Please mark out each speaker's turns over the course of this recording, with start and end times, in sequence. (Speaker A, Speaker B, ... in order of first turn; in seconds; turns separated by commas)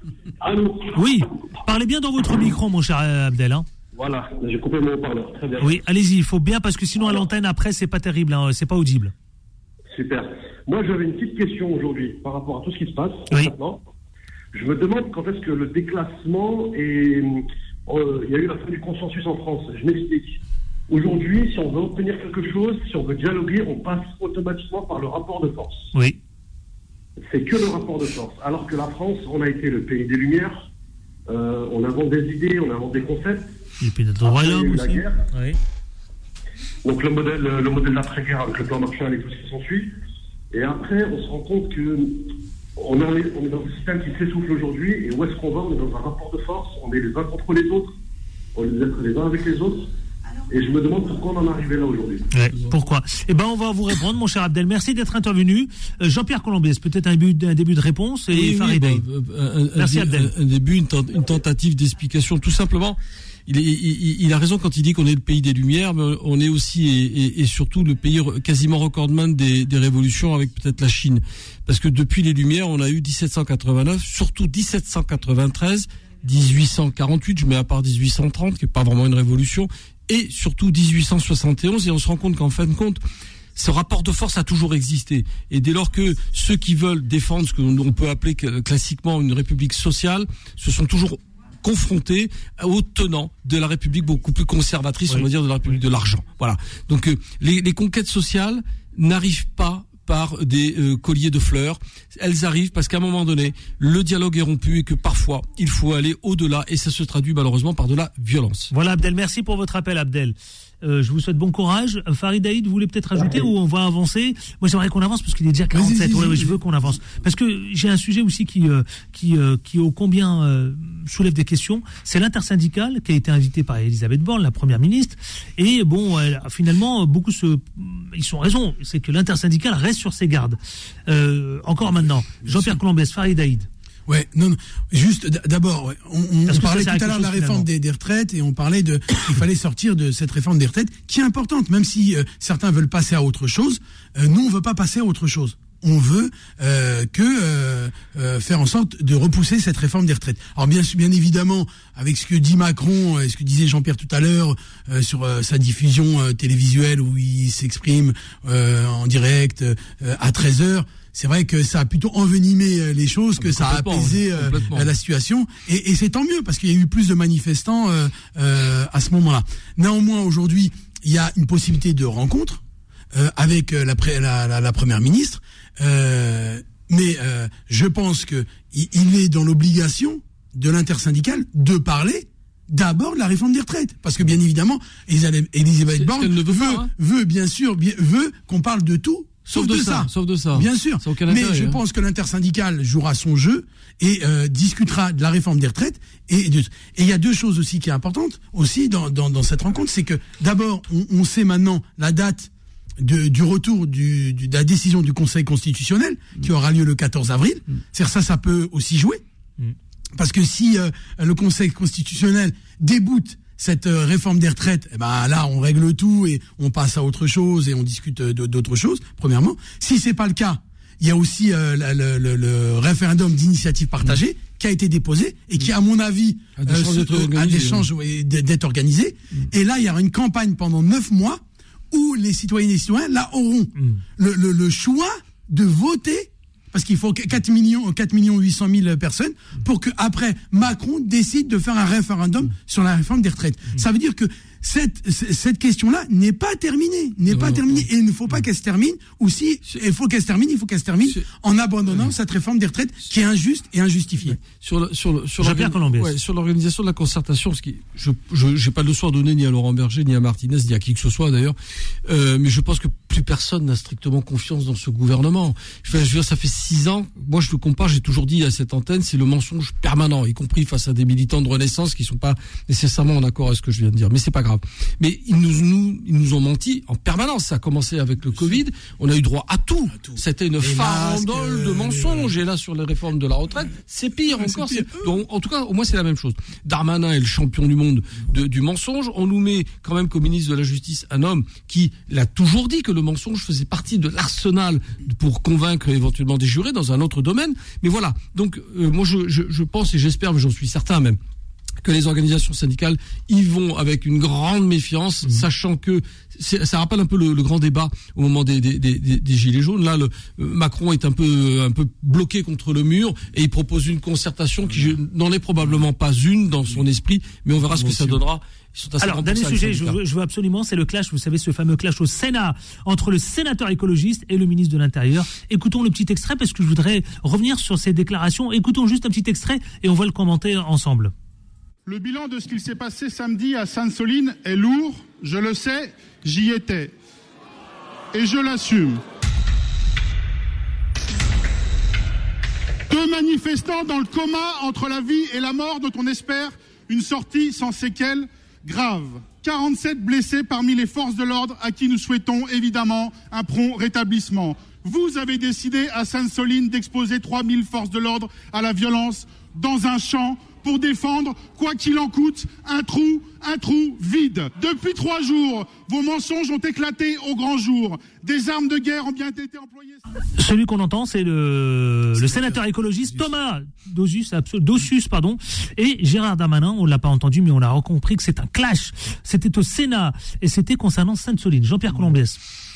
Speaker A: 0.5-0.9, Speaker B: 0.9-3.6, Speaker A: 4.0-5.8, Speaker B: 5.6-9.1, Speaker A: 9.9-13.8, Speaker A: 14.5-25.9, Speaker A: 27.3-30.7, Speaker A: 31.3-33.5, Speaker B: 33.8-35.6, Speaker A: 34.2-35.2, Speaker A: 36.8-39.9, Speaker A: 40.5-48.0, Speaker A: 48.5-49.9, Speaker A: 50.5-52.3, Speaker B: 52.3-59.0, Speaker C: 58.3-83.0, Speaker B: 59.8-60.3, Speaker C: 83.6-108.7, Speaker B: 108.7-133.7, Speaker D: 115.7-116.6, Speaker D: 132.4-132.8, Speaker D: 134.1-172.6, Speaker B: 136.5-137.7, Speaker C: 163.4-164.9, Speaker D: 173.1-209.2, Speaker C: 185.9-186.9, Speaker C: 189.5-191.8, Speaker D: 210.1-254.4, Speaker C: 226.6-227.9, Speaker C: 247.3-247.9, Speaker C: 254.2-301.2, Speaker B: 255.4-256.1, Speaker D: 280.0-282.4, Speaker D: 284.2-285.1, Speaker C: 301.8-320.0, Speaker D: 317.8-318.1, Speaker B: 319.0-331.1, Speaker E: 331.9-336.9, Speaker E: 338.1-339.0, Speaker E: 342.9-370.0, Speaker B: 370.4-382.4, Speaker D: 372.1-372.6